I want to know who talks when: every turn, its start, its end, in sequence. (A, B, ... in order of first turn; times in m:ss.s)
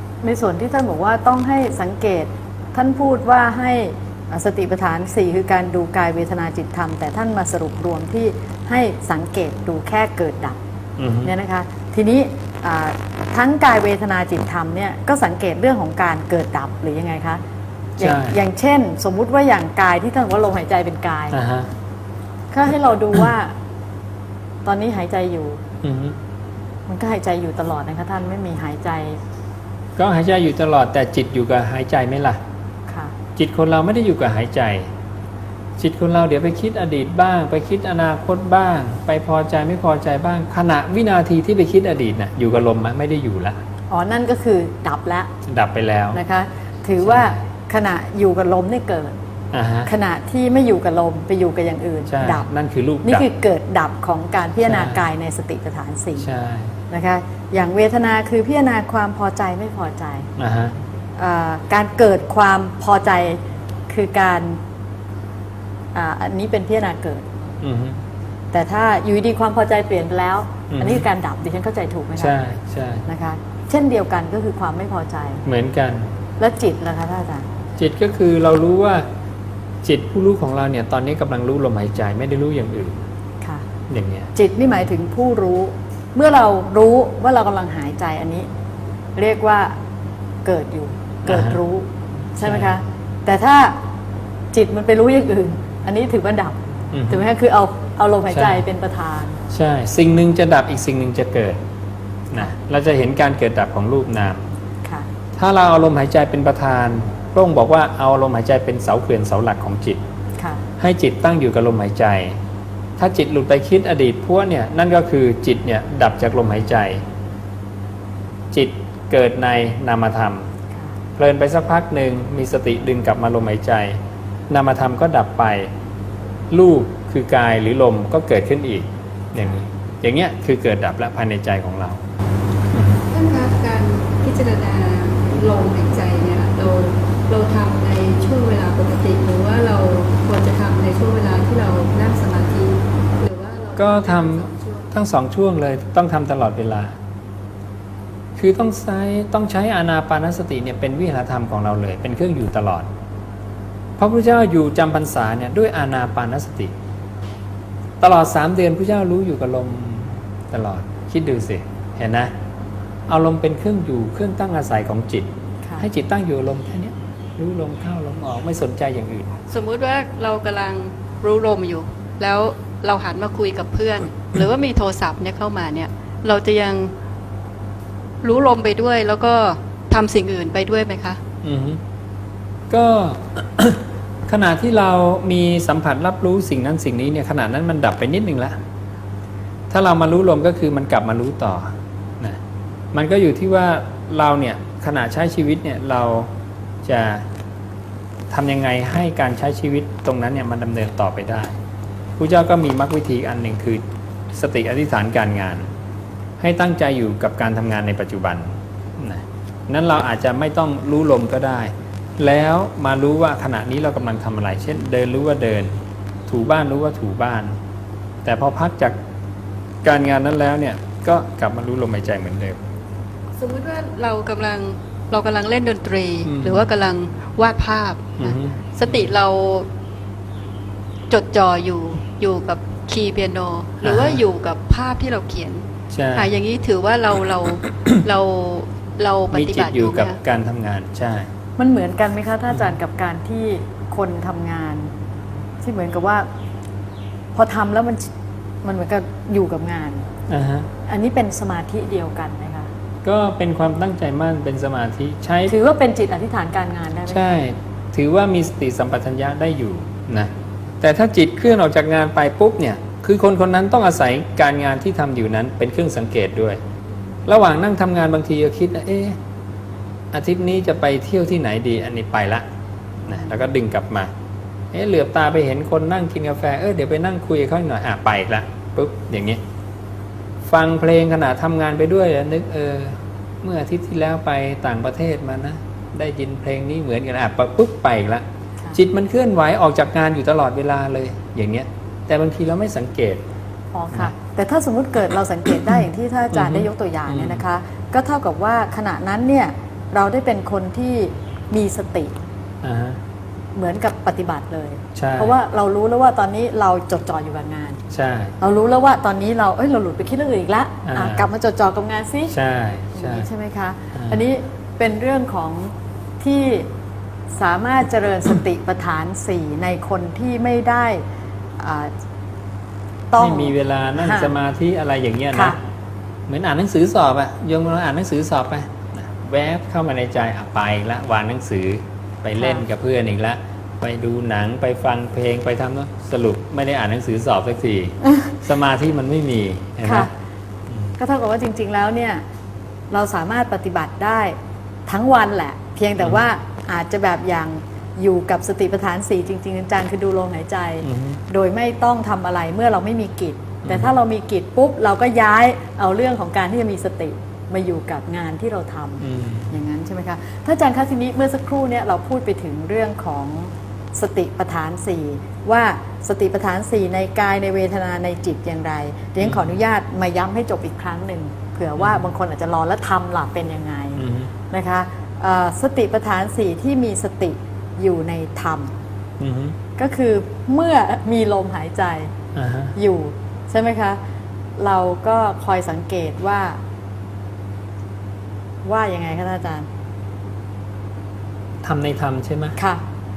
0:00.2-0:10.6 A
0:11.0-0:11.3 B
0:11.2-0:17.4 A
0:18.0-0:21.4 A
0:18.0-0:18.4 B
0:21.3-0:21.7 B
0:22.5-0:23.5 A
0:24.6-0:25.6 A
0:25.8-0:26.2 B
0:26.9-0:29.2 A
0:30.0-0:32.4 B
0:32.9-0:33.1 A
0:33.4-0:34.9 B
0:35.8-0:43.6 B
0:43.9-0:45.3 A
0:45.4-0:46.2 B
0:46.1-0:49.1 A
0:47.0-0:47.4 B
0:49.5-0:49.9 B
0:49.8-0:52.4 A
0:52.1-0:53.2 B
0:53.0-0:56.3 A
0:54.6-0:55.0 B
0:56.2-0:56.7 B
0:56.9-1:00.3 A
1:00.4-1:00.7 B
1:01.2-1:04.6 A
1:05.9-1:07.3 A
1:07.6-1:08.0 B
1:08.5-1:12.4 A
1:10.7-1:11.0 B
1:12.2-1:13.0 B
1:13.0-1:15.4 A
1:15.4-1:16.1 B
1:16.4-1:17.5 A
1:17.8-1:19.1 B
1:19.8-1:23.0 B
1:23.9-1:24.3 B
1:24.3-1:28.5 A
1:29.2-1:29.8 A
1:30.4-1:33.8 A
1:31.2-1:31.6 B
1:32.4-1:32.7 B
1:34.5-1:39.4 A
1:36.9-1:37.2 B
1:38.3-1:38.6 B
1:39.5-1:41.6 B
1:42.3-1:44.4 B
1:45.4-1:50.0 B
1:50.4-1:50.6 A
1:50.8-1:52.4 B
1:53.0-1:57.0 B
1:58.5-2:00.5 B
2:01.2-2:05.7 B
2:06.5-2:12.0 B
2:12.7-2:13.0 B
2:13.1-2:24.9 C
2:23.8-2:27.0 B
2:28.4-2:32.9 B
2:34.0-2:36.7 B
2:38.0-2:42.3 B
2:43.1-2:49.3 B
2:49.5-2:56.9 C
2:58.2-3:01.2 C
3:01.4-3:01.8 B
3:02.7-3:08.6 B
3:09.7-3:12.4 B
3:12.9-3:16.3 B
3:16.8-3:17.3 B
3:18.3-3:21.6 B
3:22.2-3:25.7 B
3:26.4-3:35.7 B
3:36.3-3:37.6 B
3:38.2-3:39.0 B
3:39.8-3:42.6 B
3:43.4-3:49.7 C
3:46.2-3:46.7 B
3:48.2-3:49.1 B
3:51.1-4:00.2 C
3:53.8-3:54.2 B
3:55.9-3:56.3 B
3:59.3-4:01.3 B
4:01.6-4:04.9 A
4:05.6-4:06.3 A
4:07.3-4:08.1 A
4:08.6-4:10.1 A
4:10.3-4:10.7 B
4:10.8-4:12.7 A
4:13.0-4:15.5 B
4:15.5-4:17.4 A
4:17.1-4:26.6 B
4:27.2-4:29.2 B
4:30.1-4:32.5 B
4:33.0-4:33.4 A
4:33.0-4:34.1 B
4:34.7-4:39.4 B
4:40.4-4:53.2 B
4:53.7-5:02.2 A
4:56.3-4:57.4 B
5:02.6-5:03.0 B
5:03.6-5:07.8 A
5:04.9-5:05.4 B
5:07.9-5:08.4 B
5:08.4-5:12.3 A
5:10.8-5:11.3 B
5:12.3-5:13.3 B
5:12.9-5:16.7 A
5:17.3-5:21.0 A
5:21.6-5:21.9 A
5:23.1-5:24.3 A
5:23.2-5:25.6 B
5:25.3-5:25.6 A
5:26.3-5:40.1 B
5:32.4-5:32.6 A
5:39.8-5:40.1 A
5:40.7-5:41.0 B
5:41.0-5:42.2 A
5:42.9-5:44.4 A
5:44.9-6:18.7 A
5:46.0-5:46.2 B
5:50.8-5:51.2 B
5:53.6-5:53.9 B
5:59.0-5:59.5 B
6:09.2-6:09.5 B
6:11.8-6:12.1 B
6:14.0-6:14.3 B
6:19.2-6:19.6 B
6:19.8-6:22.1 A
6:22.3-6:22.7 B
6:22.7-6:24.0 A
6:24.6-6:26.6 A
6:28.6-6:29.7 A
6:31.6-6:32.6 B